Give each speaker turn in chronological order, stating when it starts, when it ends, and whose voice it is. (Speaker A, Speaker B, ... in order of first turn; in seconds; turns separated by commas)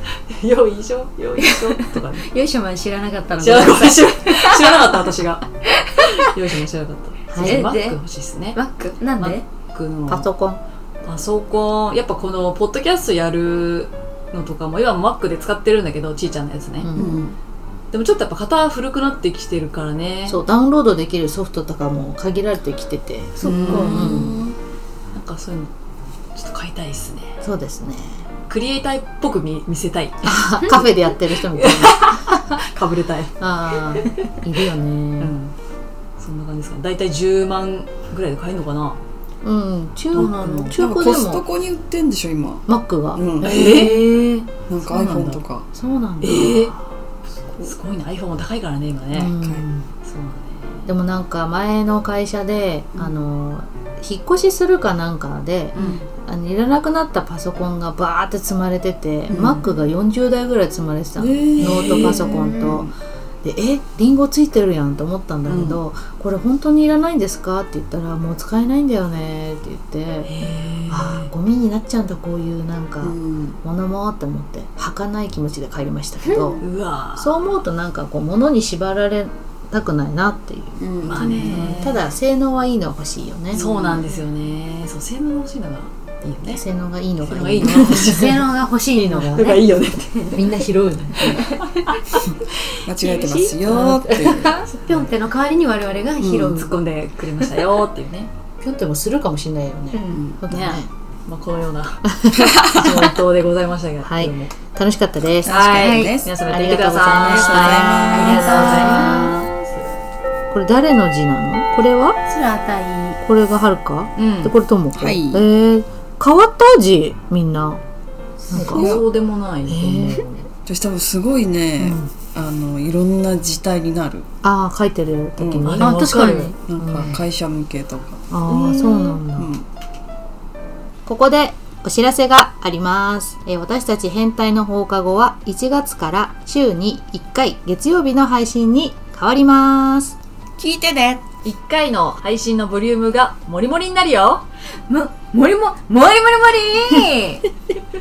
Speaker A: 0.3-2.3, Speaker B: 1.4-4.9, Speaker A: 3.4-5.4, Speaker A: 6.0-8.6, Speaker C: 7.3-7.6, Speaker B: 7.4-8.0, Speaker B: 8.5-9.4, Speaker A: 9.2-10.3, Speaker C: 10.1-10.6, Speaker A: 11.1-16.9, Speaker C: 16.8-17.3, Speaker D: 17.0-17.3, Speaker A: 17.9-20.4, Speaker C: 20.3-24.4, Speaker B: 23.4-24.1, Speaker A: 23.4-24.3, Speaker D: 23.6-24.6, Speaker A: 25.1-25.7, Speaker A: 26.4-27.4, Speaker C: 27.4-28.3, Speaker A: 28.5-30.4, Speaker C: 30.2-32.4, Speaker A: 31.5-33.3, Speaker C: 33.4-35.4, Speaker A: 35.2-35.5, Speaker A: 36.2-39.0, Speaker C: 39.4-41.5, Speaker A: 40.1-40.8, Speaker D: 40.8-43.6, Speaker C: 42.7-44.2, Speaker A: 43.4-45.4, Speaker D: 44.7-45.7, Speaker C: 45.7-46.8, Speaker A: 46.2-46.8, Speaker A: 47.6-49.4, Speaker C: 49.1-49.9, Speaker A: 50.0-50.9, Speaker C: 50.9-62.9, Speaker A: 55.8-56.0, Speaker A: 59.3-59.7, Speaker D: 61.2-62.9, Speaker A: 61.6-62.6, Speaker C: 63.4-70.3, Speaker D: 65.5-65.8, Speaker A: 70.2-71.3, Speaker C: 70.9-76.6, Speaker D: 73.0-73.6, Speaker B: 76.3-76.6, Speaker A: 76.6-77.4, Speaker C: 77.2-83.6, Speaker D: 80.8-81.7, Speaker A: 81.0-82.0, Speaker A: 83.5-86.6, Speaker D: 83.5-84.0, Speaker C: 86.4-88.3, Speaker A: 87.2-88.4, Speaker B: 87.7-90.5, Speaker C: 89.0-89.5, Speaker A: 89.3-90.4, Speaker C: 90.3-91.5, Speaker B: 91.2-96.8, Speaker D: 92.8-94.6, Speaker D: 96.2-96.7, Speaker A: 96.5-98.3, Speaker C: 98.6-100.9, Speaker B: 99.9-100.2, Speaker A: 100.5-102.0, Speaker C: 102.1-103.2, Speaker A: 102.7-104.5, Speaker C: 104.0-105.6, Speaker D: 105.4-106.3, Speaker A: 105.5-109.9, Speaker B: 105.8-106.2, Speaker C: 106.5-109.5, Speaker B: 107.2-109.4, Speaker D: 107.2-108.9, Speaker C: 110.5-112.2, Speaker B: 112.3-113.2, Speaker C: 113.2-117.8, Speaker A: 114.2-114.6, Speaker D: 115.0-115.5, Speaker C: 118.5-119.0, Speaker A: 118.5-120.5, Speaker D: 118.6-119.0, Speaker C: 119.7-120.3, Speaker D: 120.7-124.3, Speaker C: 121.8-122.1, Speaker C: 124.4-127.2, Speaker D: 125.4-125.8, Speaker A: 125.6-126.6, Speaker B: 125.8-126.6, Speaker D: 126.7-129.7, Speaker C: 128.3-129.5, Speaker C: 131.1-140.2, Speaker D: 140.6-141.2, Speaker A: 141.4-144.4, Speaker B: 144.9-147.4